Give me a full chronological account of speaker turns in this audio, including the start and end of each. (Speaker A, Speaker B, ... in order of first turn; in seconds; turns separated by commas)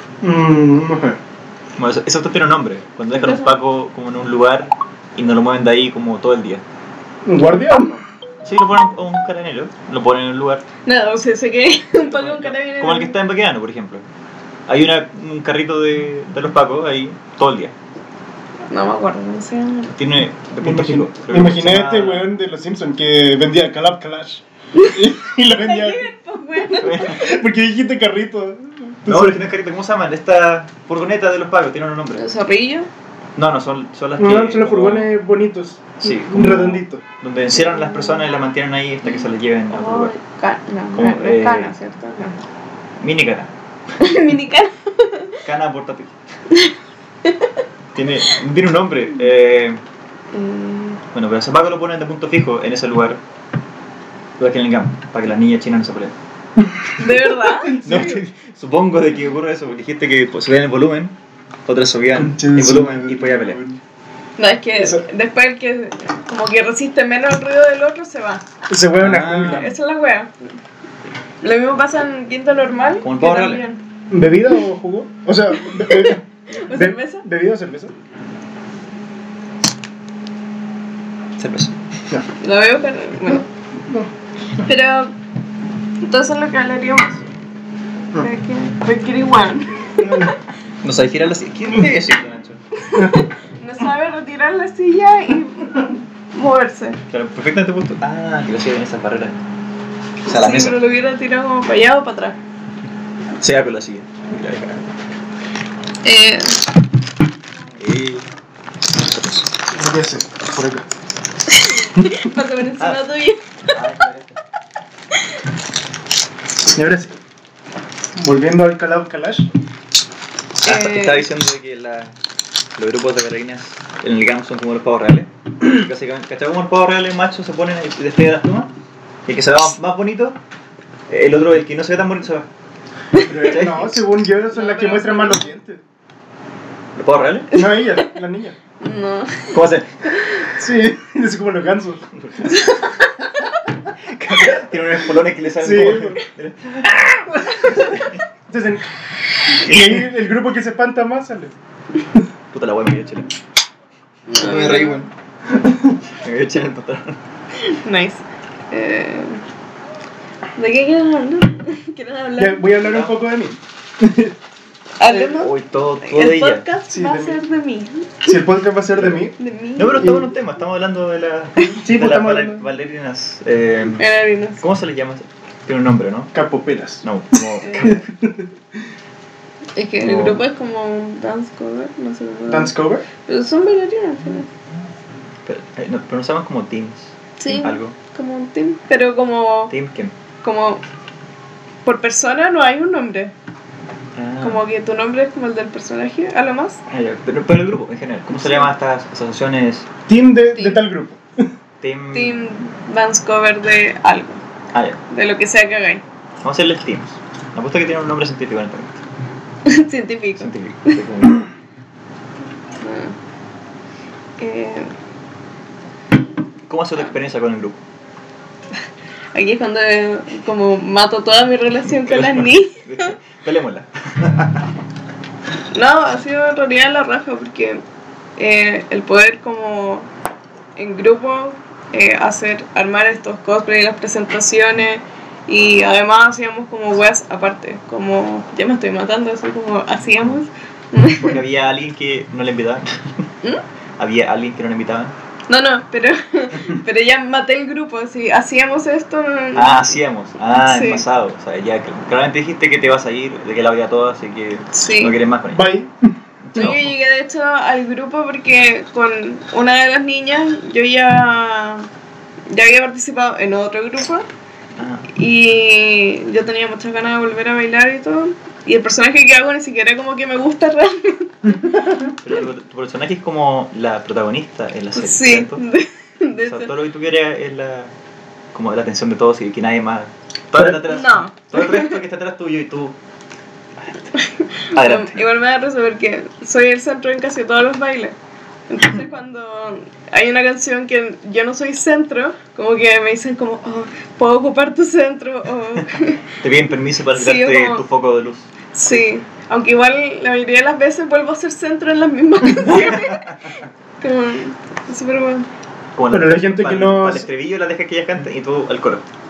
Speaker A: 0.2-1.2, Speaker B: 1.8-6.6, Speaker C: 3.1-3.6, Speaker A: 7.2-8.0, Speaker B: 8.4-10.6, Speaker C: 10.8-13.2, Speaker B: 11.9-14.0, Speaker B: 14.7-17.7, Speaker C: 18.7-19.9, Speaker B: 19.9-22.3, Speaker A: 20.6-26.0, Speaker C: 24.7-27.3, Speaker B: 26.8-27.3, Speaker A: 26.9-29.4, Speaker B: 29.1-32.2, Speaker C: 32.1-32.9, Speaker B: 33.4-35.1, Speaker A: 34.2-37.0, Speaker B: 36.0-40.1, Speaker C: 37.7-38.2, Speaker C: 39.7-42.4, Speaker B: 40.9-41.7, Speaker B: 43.0-43.5, Speaker C: 44.0-45.4, Speaker B: 45.4-46.1, Speaker C: 47.2-47.6, Speaker B: 47.9-49.8, Speaker C: 50.3-51.0, Speaker B: 51.1-53.2, Speaker B: 54.4-56.1, Speaker C: 57.0-58.1, Speaker A: 57.4-58.2, Speaker B: 57.7-61.1, Speaker B: 61.6-63.6, Speaker A: 62.1-63.8, Speaker C: 64.4-68.4, Speaker A: 64.8-65.0, Speaker A: 68.7-69.7, Speaker B: 69.0-69.7, Speaker C: 69.5-70.3, Speaker C: 71.4-73.8, Speaker B: 73.0-73.6, Speaker A: 74.1-77.9, Speaker C: 75.6-77.2, Speaker B: 81.4-81.8, Speaker C: 82.4-83.4, Speaker A: 83.3-84.1, Speaker C: 84.6-85.1, Speaker C: 86.0-87.2, Speaker C: 88.2-90.3, Speaker A: 90.0-90.3, Speaker B: 90.8-92.6, Speaker C: 92.8-97.0, Speaker A: 92.9-93.2, Speaker B: 97.1-99.4, Speaker C: 100.2-102.4, Speaker B: 100.3-100.8, Speaker B: 103.4-104.8, Speaker C: 106.0-106.6, Speaker B: 107.8-108.2, Speaker B: 109.0-109.4, Speaker A: 109.7-110.8, Speaker C: 111.5-113.4, Speaker B: 112.8-113.0, Speaker B: 113.7-114.4, Speaker A: 116.7-117.1, Speaker A: 118.2-119.5, Speaker C: 120.6-121.2, Speaker B: 120.6-122.1, Speaker B: 122.8-128.7, Speaker B: 129.3-130.4, Speaker B: 131.1-132.5, Speaker A: 133.2-135.8, Speaker B: 133.4-134.0, Speaker C: 134.5-135.4, Speaker B: 136.9-137.5, Speaker A: 137.5-138.6, Speaker C: 137.5-138.1, Speaker C: 138.8-139.6, Speaker B: 139.5-140.3, Speaker C: 140.1-140.4, Speaker A: 140.5-142.7, Speaker B: 142.2-142.7, Speaker B: 144.1-148.1, Speaker A: 145.6-146.2, Speaker A: 148.5-148.9, Speaker A: 149.5-151.5, Speaker B: 149.5-150.0, Speaker B: 152.5-153.3, Speaker C: 154.3-155.1, Speaker B: 154.4-155.1, Speaker A: 155.5-156.0, Speaker B: 156.2-157.2, Speaker C: 157.6-159.4, Speaker C: 160.6-162.6, Speaker A: 162.4-164.3, Speaker B: 162.8-163.2, Speaker C: 165.0-168.3, Speaker B: 165.1-166.7, Speaker A: 166.9-167.4, Speaker A: 168.2-169.3, Speaker C: 169.4-170.2, Speaker B: 169.8-174.1, Speaker A: 171.7-172.6, Speaker C: 174.0-174.6, Speaker B: 174.6-176.3, Speaker A: 176.3-178.5, Speaker B: 177.0-178.0, Speaker C: 177.6-178.0, Speaker C: 179.8-184.5, Speaker B: 180.0-180.4, Speaker A: 182.5-183.1, Speaker B: 185.4-187.9, Speaker C: 187.4-189.7, Speaker B: 189.7-190.1, Speaker C: 190.4-190.8, Speaker C: 191.8-193.3, Speaker B: 194.1-194.6, Speaker C: 194.4-196.8, Speaker B: 196.9-199.9, Speaker A: 200.1-201.5, Speaker C: 200.5-200.8, Speaker B: 201.8-202.4, Speaker C: 202.1-204.4, Speaker B: 204.7-205.0, Speaker C: 205.1-206.0, Speaker B: 206.4-209.0, Speaker C: 209.6-211.0, Speaker B: 210.4-211.5, Speaker C: 212.8-213.1, Speaker C: 214.4-214.9, Speaker B: 216.7-217.8, Speaker C: 219.3-223.1, Speaker B: 222.1-224.6, Speaker C: 225.7-227.8, Speaker C: 228.4-230.1, Speaker C: 230.8-241.4, Speaker B: 241.2-243.2, Speaker B: 244.0-245.1, Speaker C: 245.5-249.9, Speaker B: 249.5-255.7, Speaker C: 250.5-251.0, Speaker C: 254.7-255.1, Speaker A: 255.5-256.1, Speaker B: 256.4-256.9, Speaker C: 256.5-261.9, Speaker C: 262.5-264.2, Speaker B: 264.8-265.1, Speaker C: 265.1-271.6, Speaker B: 272.2-275.6, Speaker C: 274.9-276.7, Speaker B: 276.4-277.9, Speaker B: 278.5-282.9, Speaker C: 280.9-282.0, Speaker C: 284.1-288.1, Speaker B: 284.7-285.2, Speaker C: 288.7-296.2, Speaker B: 296.4-298.5, Speaker C: 297.1-297.8, Speaker C: 298.7-305.4, Speaker B: 302.6-303.4, Speaker B: 305.9-309.0, Speaker A: 306.1-307.3